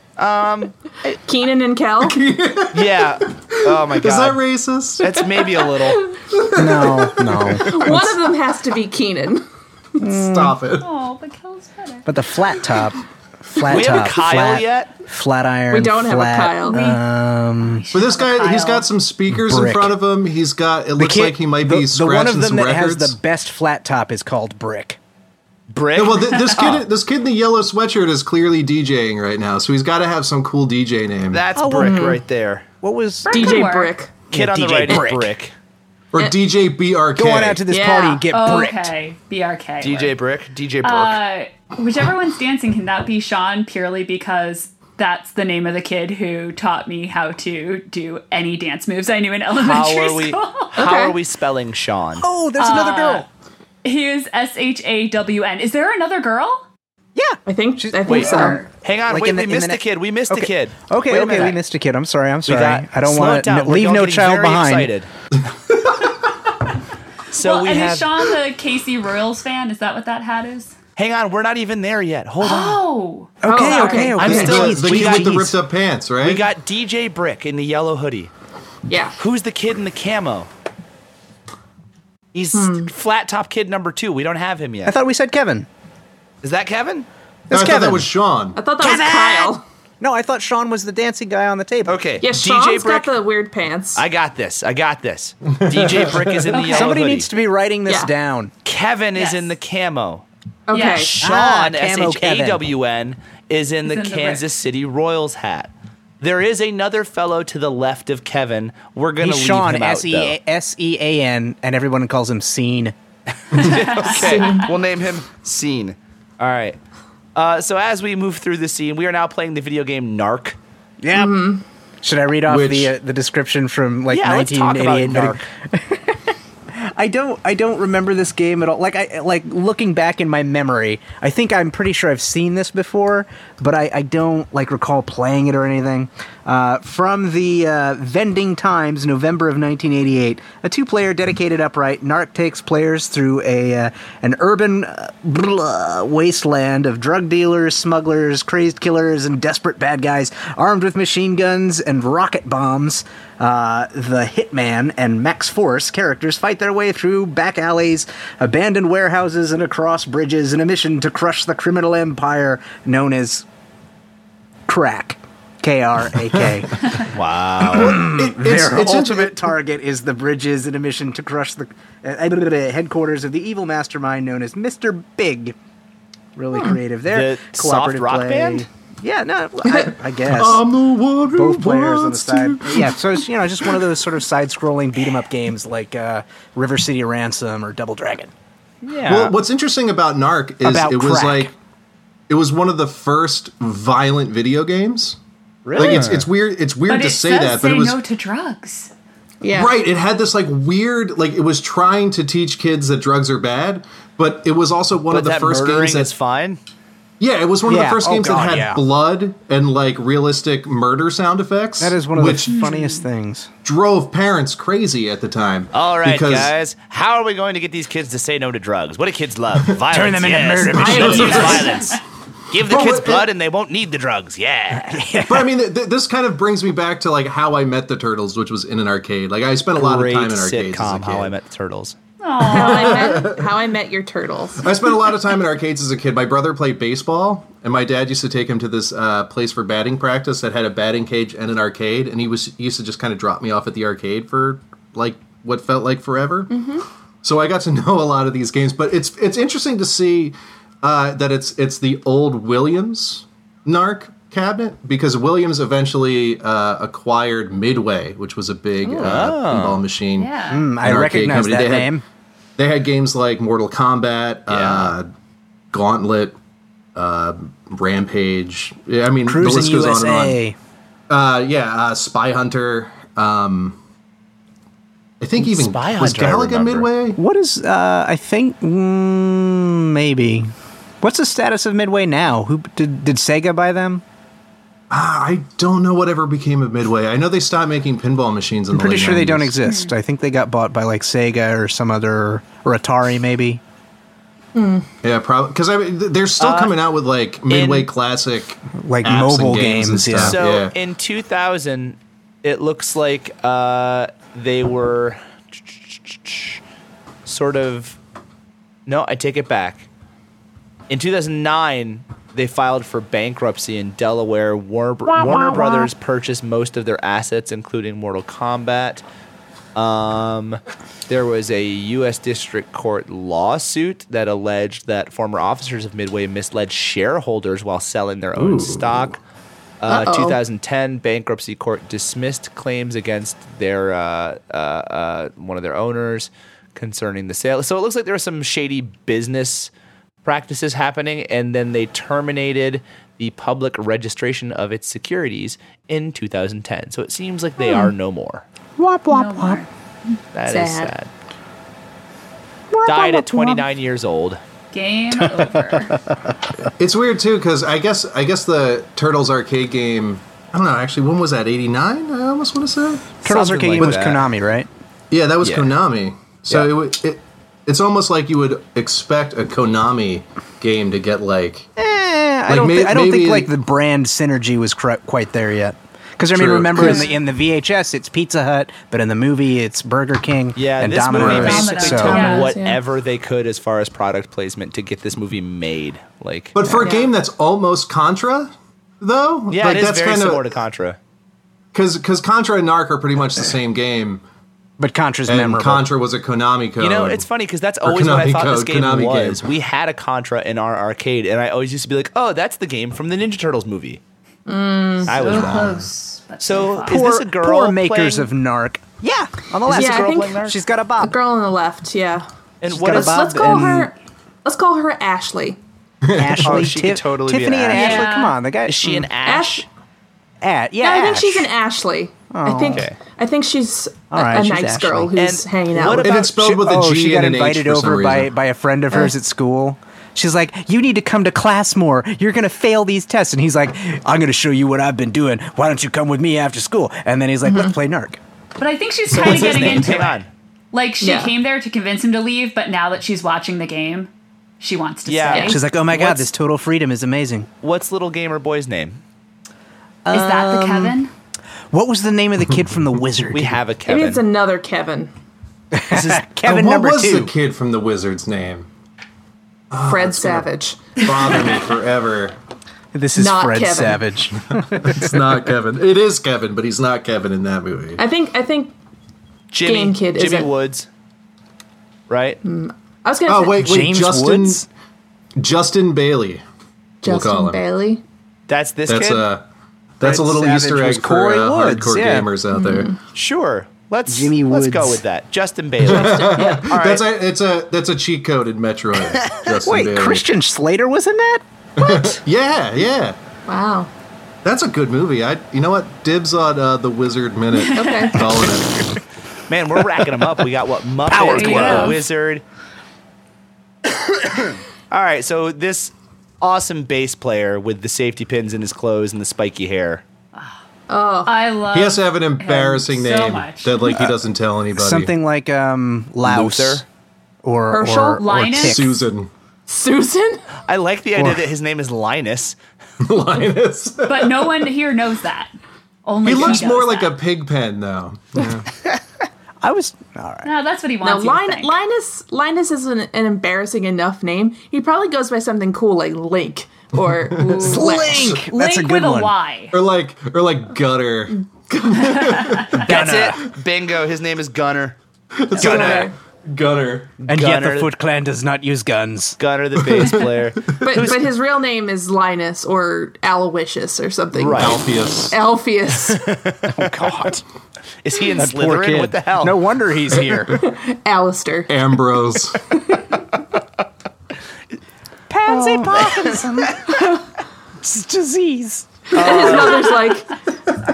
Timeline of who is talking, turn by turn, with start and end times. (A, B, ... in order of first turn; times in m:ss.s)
0:00.2-0:01.2 A
0:01.2-0:02.2 B
0:02.0-0:05.3 C
0:02.7-0:04.4 A
0:05.0-0:06.1 A
0:05.8-0:06.1 B
0:06.3-0:07.9 C
0:06.6-0:08.2 D
0:07.6-0:09.4 B
0:10.0-0:10.6 D
0:10.2-0:10.9 C
0:10.8-0:12.1 E
0:12.0-0:17.8 D
0:13.6-0:14.9 A
0:15.7-0:16.8 B
0:16.7-0:17.0 E
0:17.6-0:18.9 E
0:17.9-0:23.2 C
0:19.3-0:20.0 D
0:21.0-0:25.0 D
0:25.7-0:26.9 A
0:25.9-0:31.4 C
0:31.3-0:32.6 A
0:31.5-0:32.1 D
0:31.8-0:32.2 B
0:32.8-0:33.7 D
0:33.2-0:33.9 E
0:33.3-0:34.1 B
0:34.3-0:35.3 D
0:34.3-0:35.5 A
0:36.1-0:37.6 C
0:37.2-0:38.9 D
0:37.7-0:38.2 B
0:38.3-0:40.1 E
0:39.8-0:41.2 A
0:40.8-0:50.8 E
0:49.5-0:52.3 A
0:50.8-0:51.1 B
0:52.2-0:53.2 D
0:52.6-0:53.2 E
0:53.8-0:56.6 E
0:57.1-1:04.9 D
0:57.4-0:58.6 B
0:58.1-1:01.6 A
0:58.1-0:58.6 E
1:02.5-1:05.1 A
1:05.7-1:06.0 C
1:07.3-1:08.1 A
1:07.4-1:10.7 E
1:11.0-1:12.8 A
1:12.4-1:14.1 E
1:13.4-1:15.6 D
1:13.4-1:14.6 B
1:14.2-1:15.5 A
1:14.2-1:16.4 C
1:16.2-1:18.3 A
1:18.9-1:19.1 B
1:19.2-1:20.5 A
1:22.3-1:25.0 A
1:22.5-1:22.9 B
1:24.8-1:25.7 D
1:26.4-1:27.1 A
1:27.5-1:28.1 D
1:27.5-1:28.6 C
1:28.6-1:29.6 B
1:28.8-1:32.0 D
1:31.8-1:33.1 A
1:32.2-1:34.0 B
1:33.9-1:37.3 A
1:35.5-1:36.6 C
1:36.5-1:36.9 E
1:36.6-1:38.5 D
1:38.6-1:40.2 A
1:39.1-1:39.5 E
1:40.7-1:41.1 B
1:40.7-1:41.1 E
1:40.9-1:50.3 A
1:41.2-1:42.6 D
1:43.8-1:44.4 E
1:49.2-1:52.9 D
1:53.5-1:56.8 A
1:53.5-1:54.7 E
1:54.1-1:54.7 B
1:57.4-2:00.6 A
2:01.0-2:01.5 D
2:01.1-2:01.6 B
2:02.0-2:43.5 D
2:02.5-2:02.9 C
2:04.1-2:05.4 A
2:44.7-2:46.8 D
2:47.0-2:48.0 A
2:47.6-2:55.6 D
2:47.7-2:49.5 C
2:56.4-3:00.6 D
2:57.1-2:58.6 A
3:00.2-3:03.0 C
3:01.3-3:08.3 D
3:08.8-3:09.3 D
3:09.0-3:11.5 C
3:10.6-3:11.5 D
3:12.3-3:15.2 C
3:15.7-3:16.0 D
3:15.7-3:16.3 A
3:15.7-3:18.0 C
3:16.9-3:18.9 E
3:19.4-3:19.8 B
3:19.5-3:26.1 C
3:25.1-3:26.6 A
3:27.2-3:32.7 C
3:27.6-3:28.8 D
3:31.8-3:33.5 D
3:32.5-3:33.0 E
3:33.6-3:36.5 C
3:35.7-3:42.0 A
3:39.9-3:41.7 D
3:40.7-3:41.9 C
3:40.9-3:41.7 B
3:42.5-3:45.1 A
3:42.6-3:43.3 C
3:44.7-3:45.5 D
3:45.2-3:51.3 C
3:49.8-3:52.0 A
3:52.2-3:53.2 E
3:52.4-3:53.5 C
3:52.5-3:54.8 B
3:54.6-4:06.6 C
4:06.5-4:06.8 B
4:07.2-4:22.0 C
4:18.9-4:19.8 A
4:20.2-4:20.7 E
4:20.5-4:22.0 D
4:22.6-4:25.1 C
4:24.5-4:24.9 A
4:25.7-4:26.3 C
4:27.0-4:30.4 C
4:29.3-4:30.6 D
4:31.1-4:33.8 C
4:35.2-4:37.2 C
4:35.4-4:36.9 A
4:37.2-4:44.0 D
4:44.9-4:49.5 C
4:48.7-4:53.6 D
4:49.6-4:49.9 E
4:54.5-4:54.9 B
4:55.0-5:00.7 C
4:56.4-4:56.8 A
4:57.5-4:57.9 A
4:58.8-5:00.4 D
5:00.1-5:06.6 A
5:07.2-5:08.0 A
5:08.8-5:09.8 A
5:10.9-5:19.0 A
5:15.2-5:15.9 D
5:19.8-5:29.2 A
5:28.4-5:29.2 C
5:29.8-5:39.7 A
5:29.9-5:30.4 B
5:40.2-5:48.4 A
5:47.6-5:47.9 B
5:48.8-5:49.6 D
5:49.1-5:49.7 E
5:50.3-5:51.1 A
5:50.5-5:50.9 B
5:52.7-5:53.6 D
5:52.8-5:54.4 A
5:54.7-5:56.0 E
5:55.1-5:56.4 D
5:56.8-6:03.2 C
6:03.2-6:04.2 A
6:03.2-6:04.7 D
6:03.8-6:04.1 C
6:05.1-6:11.7 C
6:05.4-6:05.7 A
6:11.8-6:22.4 D
6:12.5-6:13.5 C
6:16.3-6:17.0 C
6:16.8-6:17.1 E
6:20.6-6:26.6 A
6:21.1-6:21.6 C
6:21.2-6:22.5 E
6:21.8-6:22.8 B
6:26.5-6:30.5 C
6:26.8-6:27.1 B
6:29.5-6:31.0 A
6:31.7-6:34.2 C
6:34.8-6:35.8 D
6:35.3-6:37.2 C
6:36.8-6:44.0 A
6:37.8-6:39.4 C
6:44.5-6:45.2 B
6:45.0-6:45.8 A
6:45.1-6:47.0 E
6:45.2-6:45.8 C
6:46.4-6:48.3 A
6:46.8-6:51.2 D
6:49.6-6:50.6 A
6:49.7-6:50.4 B
6:51.0-6:55.6 B
6:52.6-6:53.8 A
6:52.7-6:53.9 D
6:56.0-6:56.7 C
6:56.1-6:59.1 D
6:56.4-6:58.1 A
6:57.7-6:58.4 E
6:58.6-6:59.6 A
6:59.2-6:59.6 B
7:00.4-7:01.5 D
7:00.8-7:06.2 B
7:02.3-7:02.8 D
7:02.7-7:03.0 A
7:04.1-7:05.1 D
7:05.2-7:06.6 A
7:06.0-7:08.3 C
7:06.4-7:18.2 D
7:17.5-7:17.8 B
7:18.6-7:20.2 E
7:19.1-7:20.3 A
7:20.7-7:25.6 E
7:21.0-7:21.3 B
7:25.0-7:26.3 A
7:25.3-7:25.6 B
7:25.4-7:27.5 D
7:27.6-7:29.0 A
7:30.0-7:31.0 D
7:30.1-7:31.1 E
7:31.7-7:33.6 D
7:33.3-7:34.2 A
7:33.9-7:35.1 B
7:35.7-7:37.3 D
7:36.4-7:38.7 C
7:39.7-7:42.4 C
7:39.8-7:41.0 B
7:42.9-7:45.2 D
7:43.1-7:44.0 B
7:44.6-7:48.0 C
7:48.0-7:48.8 B
7:49.5-7:50.9 A
7:49.6-7:50.5 B
7:52.1-7:52.4 A
7:52.4-7:53.7 B
7:53.2-7:54.6 C
7:53.6-7:54.6 D
7:55.4-7:56.4 C
7:57.0-7:58.0 B
7:57.0-7:57.6 C
7:58.5-7:59.3 A
7:58.9-7:59.4 C
8:00.0-8:02.9 C
8:00.0-8:02.3 D
8:02.5-8:03.0 B
8:03.1-8:07.0 A
8:04.1-8:05.0 D
8:05.8-8:10.2 C
8:05.9-8:06.7 B
8:09.6-8:11.4 D
8:11.8-8:13.2 C
8:11.8-8:12.2 B
8:13.5-8:13.9 B
8:14.4-8:18.9 C
8:17.7-8:18.3 B
8:19.5-8:22.4 A
8:21.1-8:22.0 D
8:21.2-8:22.0 E
8:24.9-8:30.0 A
8:30.9-8:31.3 B
8:31.2-8:34.0 E
8:31.7-8:35.1 C
8:34.8-8:36.8 D
8:36.2-8:36.8 A
8:37.4-8:39.0 D
8:37.7-8:38.3 B
8:38.2-8:38.9 E
8:38.5-8:39.3 C
8:39.7-8:40.4 B
8:40.7-8:42.6 A
8:41.2-8:41.4 D
8:43.0-8:44.5 C
8:44.0-8:45.5 E
8:46.0-8:47.2 E
8:46.2-8:48.6 C
8:49.6-8:50.5 D
8:50.4-8:51.8 E
8:51.0-8:58.4 B
8:57.2-8:58.4 C
8:57.5-8:59.3 D
8:58.4-8:59.8 E
8:59.7-9:02.9 C
9:02.0-9:02.7 E
9:02.8-9:05.0 A
9:02.8-9:03.4 D
9:05.3-9:07.2 C
9:05.5-9:06.1 B
9:05.6-9:06.0 A
9:07.2-9:07.9 A
9:07.3-9:09.4 D
9:09.4-9:11.3 A
9:09.8-9:10.8 C
9:10.8-9:16.3 B
9:14.3-9:14.8 A
9:14.6-9:15.4 C
9:16.0-9:17.1 A
9:16.7-9:17.4 D
9:18.0-9:19.6 A
9:18.4-9:20.6 D
9:20.5-9:21.8 B
9:21.7-9:22.7 C
9:25.3-9:27.2 D
9:25.5-9:26.5 A
9:26.9-9:27.2 B
9:27.8-9:29.4 D
9:29.1-9:30.1 A
9:29.1-9:30.5 B